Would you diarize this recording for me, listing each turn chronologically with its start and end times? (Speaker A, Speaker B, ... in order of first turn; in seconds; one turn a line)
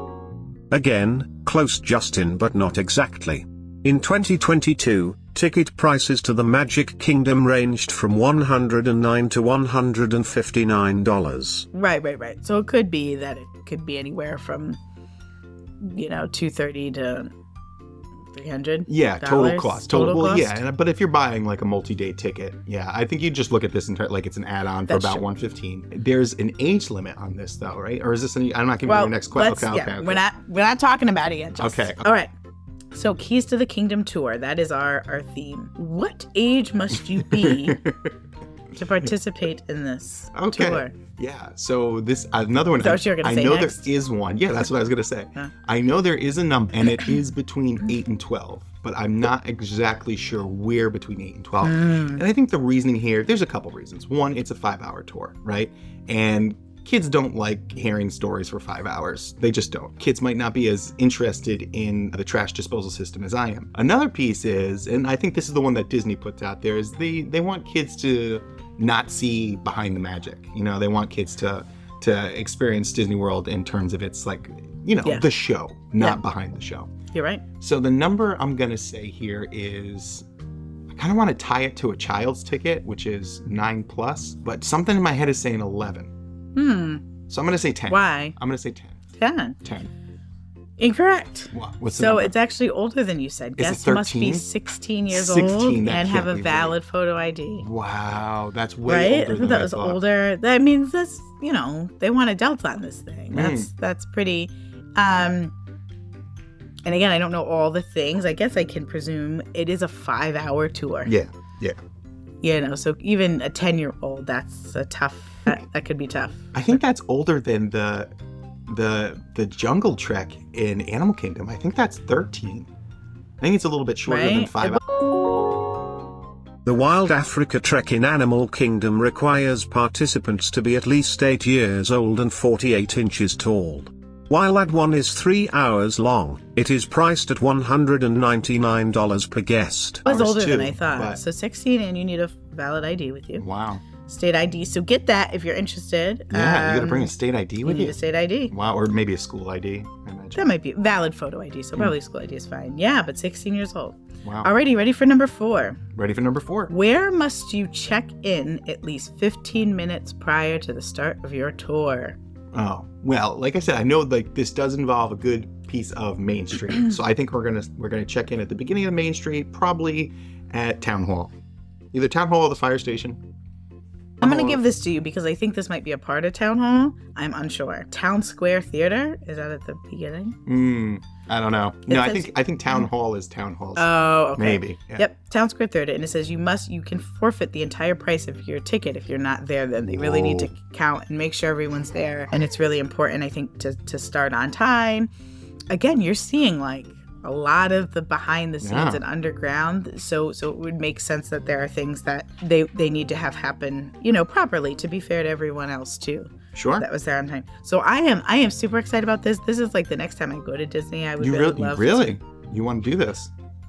Speaker A: 0.7-11.7
Speaker B: 11.7-14.8
Speaker B: 15.8-17.3
Speaker B: 18.3-20.6
Speaker C: 18.9-30.2
Speaker B: 24.9-25.2
Speaker B: 28.9-32.3
Speaker C: 31.6-32.0
Speaker B: 32.9-37.8
Speaker C: 37.3-38.1
Speaker B: 38.8-40.9
Speaker C: 40.3-76.9
Speaker B: 42.8-43.9
Speaker B: 51.6-52.2
Speaker B: 77.1-77.4
Speaker C: 77.6-80.2
Speaker C: 80.9-86.1
Speaker B: 86.5-87.0
Speaker C: 87.3-89.0
Speaker B: 87.9-88.4
Speaker B: 89.2-89.6
Speaker C: 89.6-89.9
Speaker B: 90.8-97.7
Speaker C: 91.5-92.3
Speaker C: 93.6-94.5
Speaker C: 95.1-96.8
Speaker C: 97.6-100.0
Speaker B: 98.9-105.5
Speaker C: 103.3-103.7
Speaker B: 106.8-111.1
Speaker C: 111.0-111.8
Speaker B: 112.4-116.8
Speaker C: 116.5-118.1
Speaker C: 118.7-122.7
Speaker C: 123.4-124.8
Speaker B: 124.1-124.8
Speaker A: 126.7-140.0
Speaker B: 140.1-143.4
Speaker C: 140.1-141.2
Speaker C: 143.4-143.8
Speaker B: 144.0-147.1
Speaker C: 146.3-148.0
Speaker B: 147.6-148.5
Speaker C: 148.5-150.5
Speaker B: 150.4-155.8
Speaker C: 154.2-154.5
Speaker C: 155.9-156.7
Speaker B: 156.7-162.2
Speaker C: 162.5-171.3
Speaker C: 171.9-173.2
Speaker C: 174.2-174.6
Speaker B: 174.2-180.4
Speaker C: 180.5-185.1
Speaker B: 181.9-182.8
Speaker B: 183.8-195.1
Speaker C: 189.9-190.5
Speaker B: 195.7-212.1
Speaker C: 198.6-199.0
Speaker C: 206.5-206.8
Speaker C: 211.2-213.3